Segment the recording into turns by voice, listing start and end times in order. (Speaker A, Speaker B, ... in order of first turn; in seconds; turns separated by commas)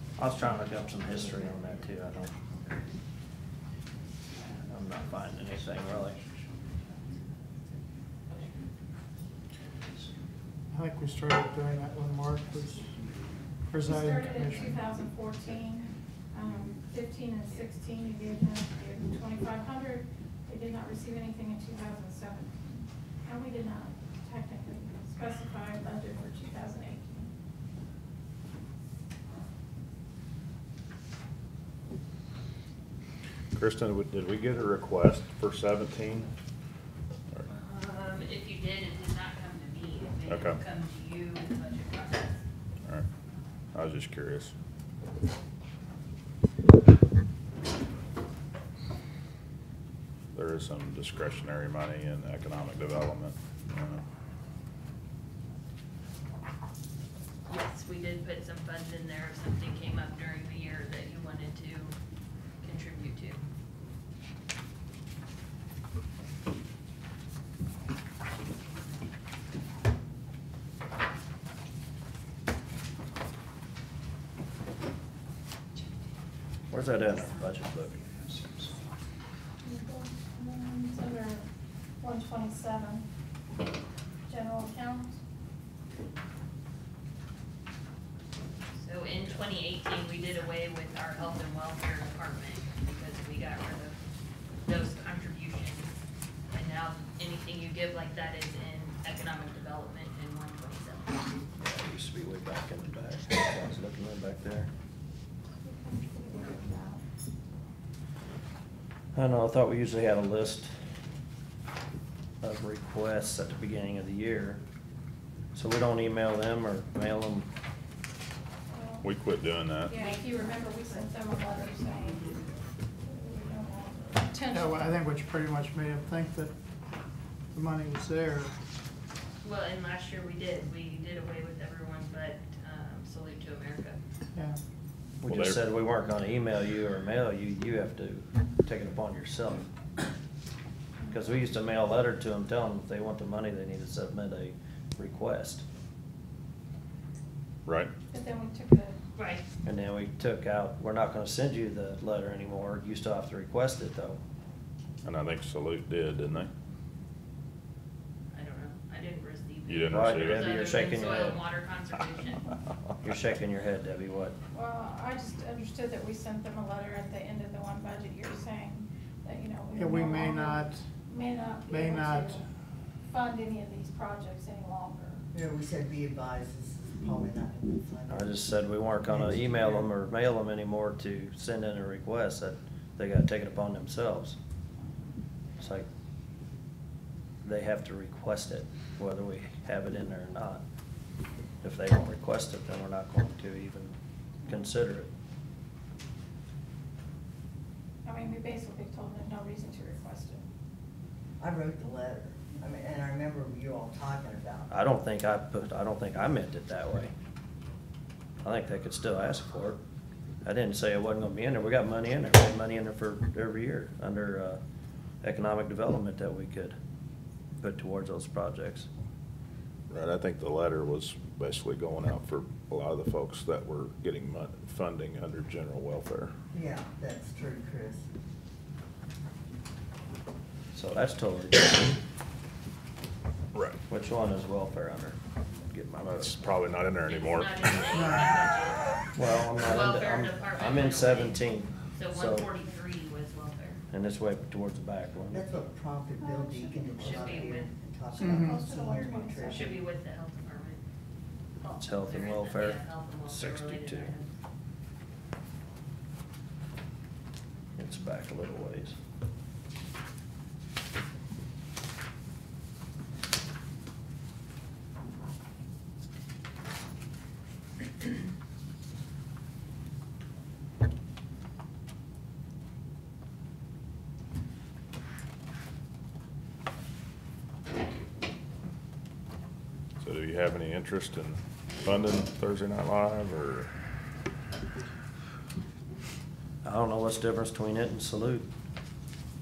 Speaker A: 0.2-2.3, Speaker A: 4.5-6.2, Speaker B: 10.7-12.9, Speaker B: 13.7-14.8, Speaker C: 13.8-27.3, Speaker D: 33.5-36.3, Speaker E: 37.5-42.4, Speaker D: 40.3-40.6, Speaker D: 43.7-44.5, Speaker D: 50.3-54.0, Speaker E: 57.5-62.0, Speaker E: 62.6-63.4, Speaker A: 76.7-78.8, Speaker C: 79.6-81.5, Speaker C: 82.0-83.0, Speaker C: 84.3-85.2, Speaker E: 88.8-94.0, Speaker E: 94.7-95.9, Speaker E: 96.5-101.3, Speaker A: 101.6-104.7, Speaker C: 105.6-107.0, Speaker A: 109.2-110.7, Speaker A: 112.4-114.6, Speaker A: 115.5-117.5, Speaker C: 118.7-119.1, Speaker D: 119.0-120.0, Speaker C: 119.9-122.4, Speaker E: 119.9-122.5, Speaker C: 123.0-124.9, Speaker B: 124.4-126.5, Speaker B: 127.5-128.6, Speaker E: 129.4-134.0, Speaker A: 135.2-139.7, Speaker D: 135.3-135.6, Speaker A: 141.1-145.7, Speaker D: 147.7-147.9, Speaker C: 148.1-149.0, Speaker E: 149.2-149.4, Speaker A: 149.6-154.2, Speaker D: 155.0-156.5, Speaker E: 158.3-162.5, Speaker D: 159.7-160.6, Speaker A: 159.9-161.4, Speaker A: 163.0-164.4, Speaker C: 164.5-172.4, Speaker B: 169.7-170.8, Speaker B: 171.7-172.4, Speaker C: 173.1-175.2, Speaker F: 175.3-178.4, Speaker A: 178.1-184.4, Speaker A: 185.6-185.9, Speaker A: 187.4-190.6, Speaker A: 191.6-195.1, Speaker C: 198.1-200.5, Speaker F: 201.4-204.7, Speaker A: 204.7-207.1, Speaker A: 208.4-209.8, Speaker A: 210.4-214.6, Speaker A: 215.2-216.8, Speaker A: 217.6-218.9, Speaker D: 219.9-226.3, Speaker F: 226.5-228.1, Speaker A: 230.7-232.0, Speaker D: 233.5-233.8, Speaker A: 233.9-236.5, Speaker D: 236.0-237.8, Speaker E: 237.1-238.9, Speaker B: 237.9-238.3, Speaker A: 239.2-242.5, Speaker E: 239.6-241.4, Speaker E: 241.9-243.8, Speaker A: 243.9-245.4, Speaker F: 245.3-249.8, Speaker C: 246.2-247.2, Speaker E: 247.0-247.7, Speaker B: 248.2-248.6, Speaker C: 248.2-249.8, Speaker E: 249.5-250.8, Speaker C: 251.6-251.9, Speaker A: 251.7-254.1, Speaker E: 252.0-254.3, Speaker A: 257.8-259.0, Speaker D: 280.0-283.7, Speaker A: 286.6-288.5